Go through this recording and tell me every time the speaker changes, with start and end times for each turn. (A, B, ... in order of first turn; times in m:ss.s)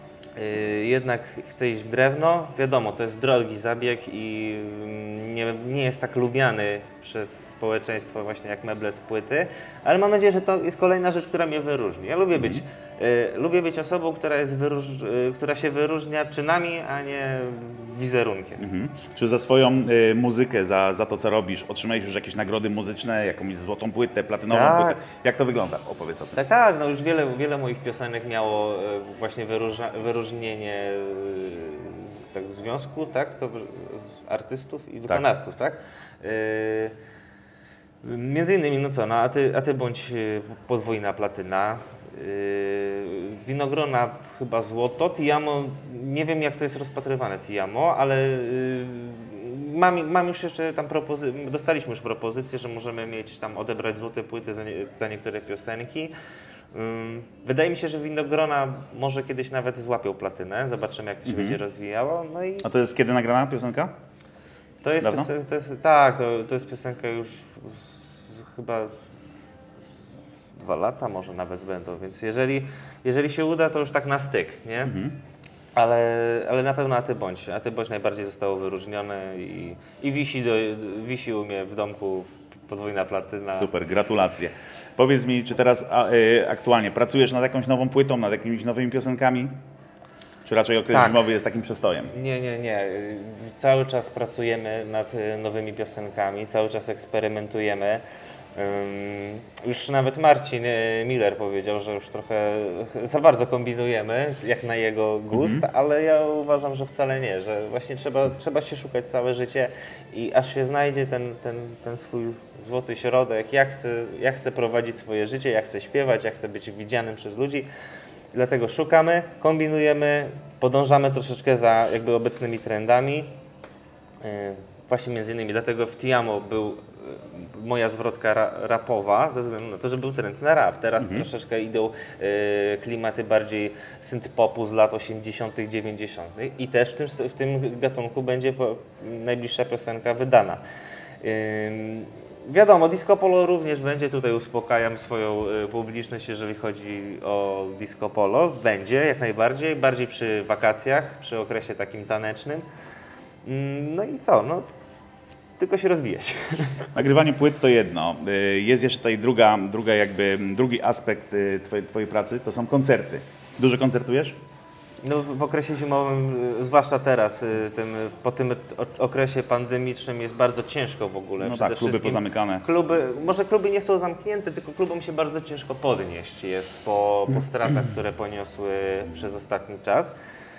0:00.4-0:18.7 A
0:12.3-0:12.6 B
0:18.6-0:26.4 B
0:24.5-0:25.0 A
0:26.3-0:36.9 A
0:38.0-0:56.1 A
0:56.7-1:02.7 A
1:01.2-1:01.6 B
1:02.6-1:03.9 B
1:04.8-1:08.9 A
1:05.0-1:05.3 B
1:10.6-1:14.9 A
1:14.8-1:15.2 B
1:15.8-1:23.7 A
1:23.5-1:29.5 B
1:30.4-1:32.1 B
1:30.9-1:31.3 A
1:32.1-1:38.0 A
1:38.6-1:57.7 A
1:45.3-1:45.6 B
1:58.3-2:03.3 A
2:04.2-2:20.6 A
2:11.0-2:11.3 B
2:21.2-2:32.6 A
2:33.4-2:34.7 A
2:35.6-2:36.9 A
2:36.9-2:44.4 B
2:45.0-3:00.1 A
2:51.4-2:52.6 B